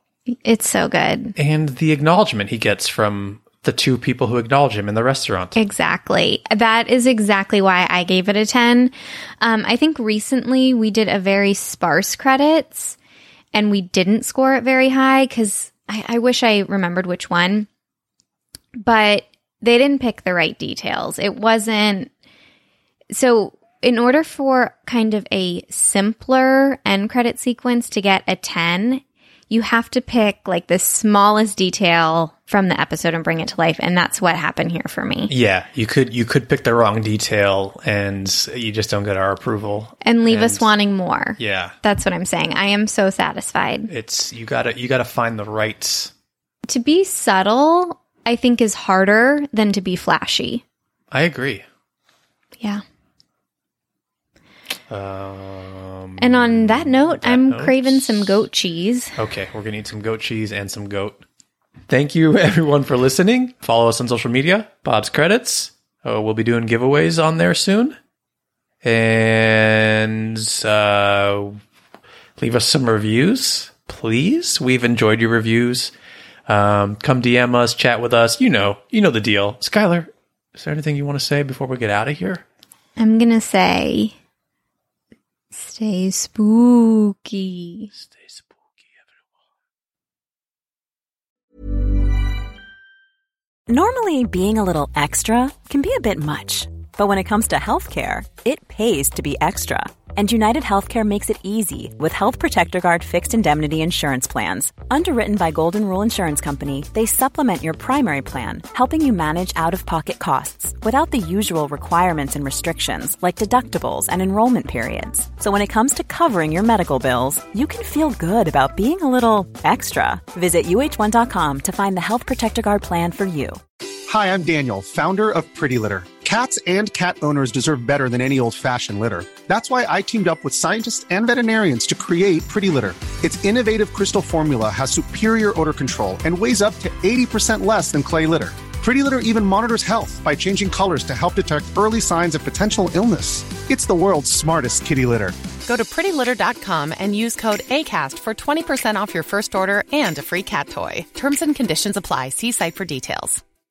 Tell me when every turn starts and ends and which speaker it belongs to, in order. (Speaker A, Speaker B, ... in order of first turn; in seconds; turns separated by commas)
Speaker A: 0.4-1.3, Speaker B: 1.4-5.6, Speaker A: 5.5-12.9, Speaker A: 13.5-17.7, Speaker A: 18.8-22.1, Speaker A: 23.1-35.3, Speaker B: 35.3-40.7, Speaker A: 40.0-43.9, Speaker B: 41.4-41.7, Speaker B: 43.9-46.1, Speaker A: 46.7-50.6, Speaker B: 51.1-51.6, Speaker B: 54.9-58.4, Speaker A: 56.2-59.1, Speaker B: 59.1-61.2, Speaker B: 61.9-68.0, Speaker B: 68.8-71.6, Speaker B: 72.4-75.9, Speaker B: 76.5-82.4, Speaker A: 83.0-84.1, Speaker A: 85.5-87.9, Speaker B: 87.9-88.5, Speaker C: 93.7-123.6, Speaker D: 124.1-145.4, Speaker E: 145.6-153.4